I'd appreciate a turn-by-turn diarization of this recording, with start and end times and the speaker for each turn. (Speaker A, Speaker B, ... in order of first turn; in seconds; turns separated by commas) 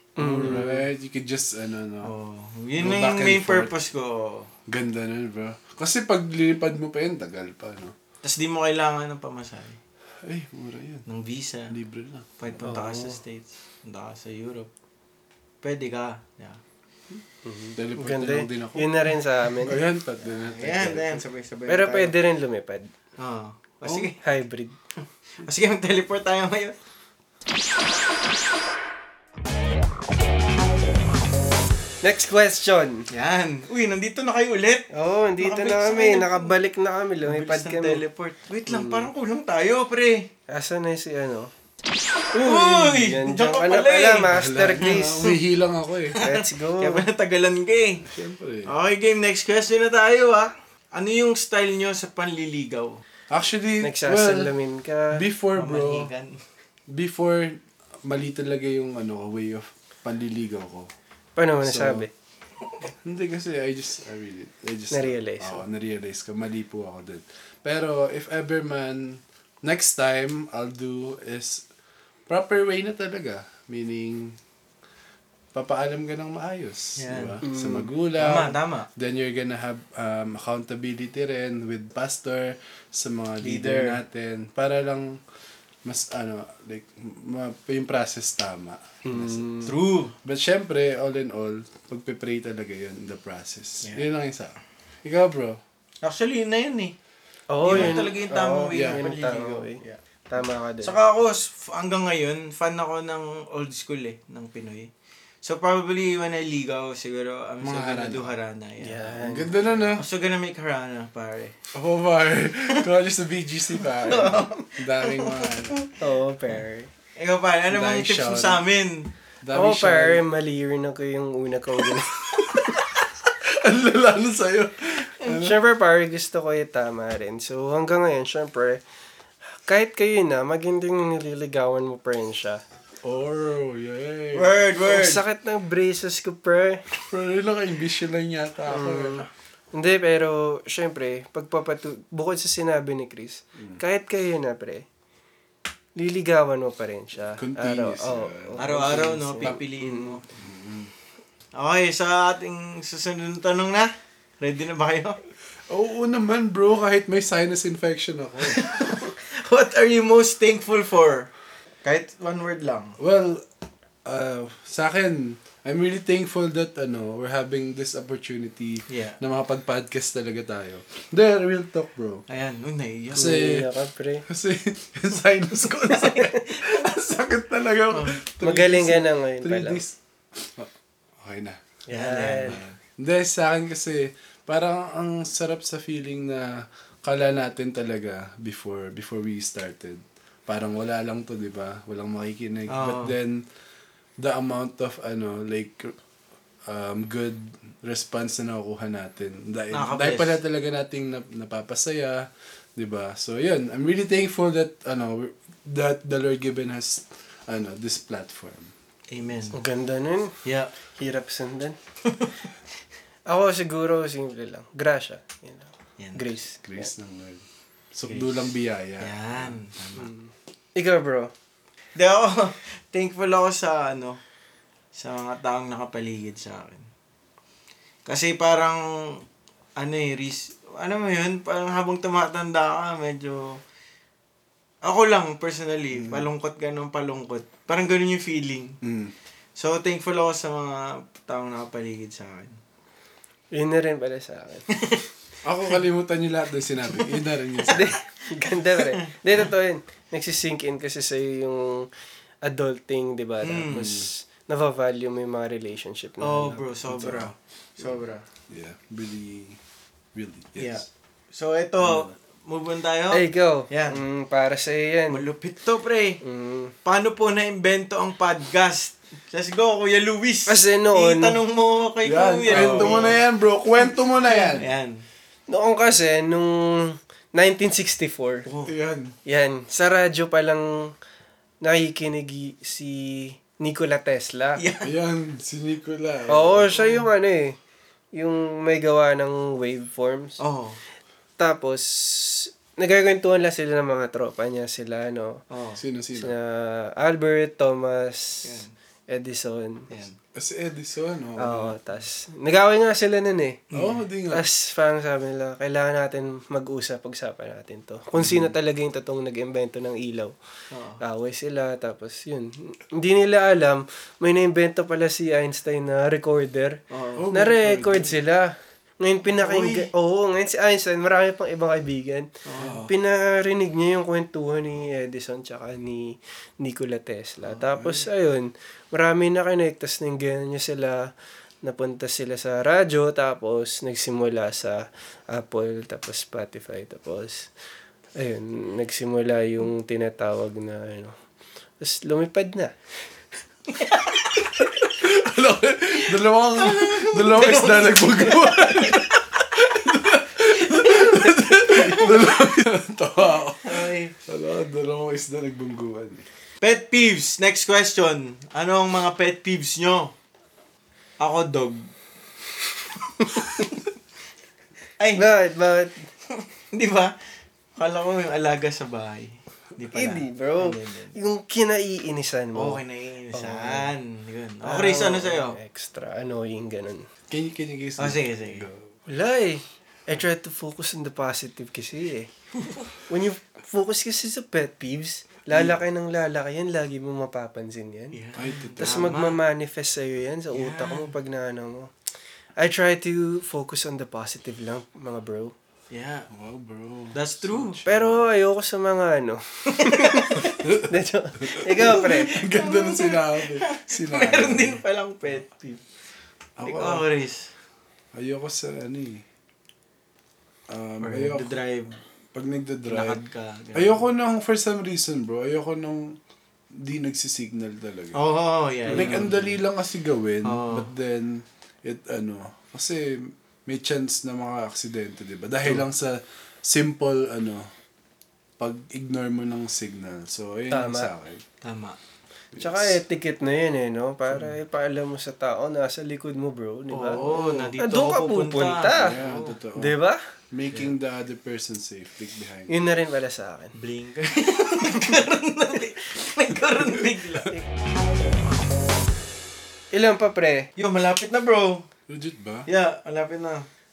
Speaker A: 0.2-0.8, Speaker B: 0.2-2.1, Speaker C: 2.0-4.5, Speaker B: 2.8-3.7, Speaker B: 4.7-8.0, Speaker C: 8.2-9.8, Speaker B: 10.2-11.1, Speaker C: 11.1-11.7, Speaker B: 11.7-12.6, Speaker C: 12.4-14.7, Speaker A: 12.6-13.2, Speaker C: 15.6-16.6, Speaker A: 17.4-19.8, Speaker B: 17.8-21.2, Speaker C: 20.3-22.2, Speaker A: 21.7-22.9, Speaker C: 23.2-24.2, Speaker A: 24.1-24.8, Speaker C: 25.4-26.8, Speaker A: 32.0-33.1, Speaker C: 33.1-36.5, Speaker A: 34.9-38.0, Speaker C: 37.2-40.3, Speaker A: 38.7-39.1, Speaker A: 40.5-41.5, Speaker A: 42.3-45.3, Speaker C: 42.4-44.4, Speaker B: 44.3-46.2, Speaker C: 46.1-48.1, Speaker A: 46.2-47.1, Speaker B: 48.0-48.7, Speaker C: 48.7-53.0, Speaker B: 53.3-54.5, Speaker A: 53.8-55.2, Speaker B: 55.1-56.1, Speaker C: 55.5-56.4, Speaker B: 56.9-60.9, Speaker A: 61.4-62.1, Speaker B: 61.6-62.1, Speaker B: 63.0-71.7, Speaker A: 64.9-65.6, Speaker B: 72.3-74.4, Speaker B: 75.5-85.2, Speaker C: 77.0-77.4, Speaker A: 77.4-77.9, Speaker C: 78.2-78.9, Speaker C: 83.4-84.0, Speaker B: 85.8-89.7, Speaker A: 89.0-89.7, Speaker C: 89.7-90.2, Speaker B: 90.2-95.6, Speaker C: 96.0-97.0, Speaker A: 97.5-101.0, Speaker C: 97.6-100.0, Speaker B: 97.7-98.0, Speaker B: 98.7-99.0, Speaker C: 100.8-104.9, Speaker C: 105.4-109.2, Speaker B: 107.6-108.3, Speaker A: 108.8-109.6, Speaker B: 109.2-110.0, Speaker C: 110.0-111.6, Speaker B: 111.7-115.8, Speaker C: 113.8-115.9, Speaker A: 116.0-116.9, Speaker C: 117.2-119.1, Speaker B: 117.7-118.7, Speaker B: 119.4-120.2, Speaker A: 119.5-122.7, Speaker B: 123.4-125.6, Speaker A: 125.3-128.8, Speaker A: 129.7-132.6, Speaker B: 133.0-134.6, Speaker C: 134.3-135.2, Speaker A: 134.8-136.8, Speaker B: 136.9-139.2, Speaker A: 138.7-144.9, Speaker A: 146.0-150.2, Speaker B: 147.4-149.6, Speaker C: 148.6-150.2, Speaker B: 150.4-150.9, Speaker C: 151.6-155.2, Speaker B: 155.7-158.6, Speaker C: 158.5-161.3, Speaker C: 161.8-163.0, Speaker B: 163.0-163.4, Speaker B: 164.1-172.2, Speaker C: 168.9-169.2, Speaker C: 172.3-173.4, Speaker B: 173.2-173.7, Speaker A: 173.2-174.3, Speaker B: 174.3-181.6, Speaker C: 175.9-177.1, Speaker C: 177.9-178.2, Speaker A: 178.4-179.8, Speaker A: 181.9-182.6, Speaker C: 181.9-182.8, Speaker B: 183.0-193.4, Speaker C: 192.7-193.1, Speaker B: 194.2-196.0, Speaker B: 196.7-208.7, Speaker C: 199.7-200.4, Speaker C: 209.1-209.6, Speaker A: 209.5-210.4, Speaker C: 210.4-210.7, Speaker A: 211.0-211.8, Speaker A: 213.3-216.9, Speaker C: 216.0-216.2, Speaker B: 216.6-219.6, Speaker C: 219.0-220.1, Speaker A: 220.0-221.3, Speaker C: 221.9-224.2, Speaker C: 224.9-226.9, Speaker C: 228.1-229.2, Speaker C: 229.8-233.6, Speaker C: 234.8-238.8, Speaker B: 235.9-236.3, Speaker B: 238.8-239.1, Speaker C: 239.6-242.6, Speaker A: 243.5-244.8, Speaker C: 244.7-245.0, Speaker B: 245.4-248.0, Speaker A: 247.7-251.9, Speaker C: 248.8-249.1, Speaker A: 252.4-256.7, Speaker C: 253.4-254.0, Speaker B: 253.7-254.0, Speaker C: 256.2-258.2, Speaker B: 256.9-257.3, Speaker B: 258.5-259.6, Speaker B: 260.1-260.9, Speaker C: 260.6-264.0, Speaker B: 261.8-262.1, Speaker A: 263.1-265.2, Speaker C: 265.1-266.2, Speaker A: 266.2-266.7, Speaker C: 266.8-273.2, Speaker A: 270.5-271.4, Speaker B: 272.0-274.7, Speaker A: 272.5-272.9, Speaker C: 274.3-275.0, Speaker A: 275.5-278.5, Speaker C: 278.5-278.7, Speaker B: 278.7-279.1, Speaker A: 279.3-280.9, Speaker A: 281.6-284.6, Speaker C: 284.6-284.9, Speaker B: 284.8-286.8, Speaker A: 286.3-287.6, Speaker C: 286.8-287.0, Speaker A: 288.1-290.4, Speaker C: 290.4-290.8, Speaker A: 291.4-295.4, Speaker C: 295.5-295.8, Speaker B: 295.8-296.3, Speaker A: 296.1-299.9, Speaker C: 298.4-298.7, Speaker C: 299.9-300.1, Speaker B: 300.3-301.8, Speaker A: 301.4-303.6, Speaker C: 303.7-304.0, Speaker B: 303.7-304.5, Speaker A: 304.3-310.4, Speaker B: 308.1-308.5, Speaker C: 310.7-311.0, Speaker A: 311.0-331.1, Speaker C: 316.9-317.3, Speaker B: 317.2-318.2, Speaker C: 319.4-319.9, Speaker C: 322.4-322.8, Speaker B: 322.6-322.9, Speaker B: 327.8-328.1, Speaker A: 331.6-337.5, Speaker A: 338.2-341.2, Speaker A: 341.8-342.8, Speaker B: 344.8-356.2, Speaker C: 346.6-348.9, Speaker C: 350.8-351.2, Speaker C: 351.7-352.1, Speaker C: 353.6-354.1, Speaker C: 356.6-360.1, Speaker C: 361.2-361.9, Speaker C: 363.2-363.8, Speaker A: 365.1-366.1, Speaker C: 366.3-367.1, Speaker C: 367.8-371.1, Speaker A: 369.9-372.8, Speaker C: 372.6-375.6, Speaker A: 373.3-373.9, Speaker A: 374.6-377.1, Speaker B: 377.3-378.9, Speaker C: 378.0-378.7, Speaker A: 379.1-382.3, Speaker C: 382.6-382.9, Speaker A: 383.1-388.2, Speaker C: 388.1-389.4, Speaker B: 388.4-389.2, Speaker A: 388.8-391.9, Speaker C: 390.5-391.1, Speaker A: 392.6-395.5, Speaker C: 395.9-396.3, Speaker B: 396.3-398.2, Speaker C: 397.1-397.8, Speaker A: 397.9-402.4, Speaker C: 399.8-400.4, Speaker B: 400.5-404.8, Speaker C: 401.9-405.8, Speaker B: 406.6-407.1, Speaker C: 406.6-407.5, Speaker B: 408.1-409.2, Speaker B: 410.7-411.5, Speaker C: 411.0-412.0, Speaker B: 412.4-413.2, Speaker C: 412.9-414.0, Speaker B: 413.7-416.2, Speaker B: 416.7-418.2, Speaker C: 418.1-419.6, Speaker B: 418.9-427.7, Speaker C: 420.4-420.9, Speaker B: 428.6-431.4, Speaker A: 430.7-431.1, Speaker C: 431.6-432.0, Speaker B: 432.5-433.0, Speaker A: 432.6-439.2, Speaker C: 436.9-439.6, Speaker B: 438.9-440.0, Speaker A: 439.8-440.2, Speaker B: 440.5-442.8, Speaker A: 442.7-443.7, Speaker C: 443.8-447.6, Speaker A: 449.9-450.7, Speaker C: 450.8-451.9, Speaker B: 452.1-452.7, Speaker C: 452.7-453.7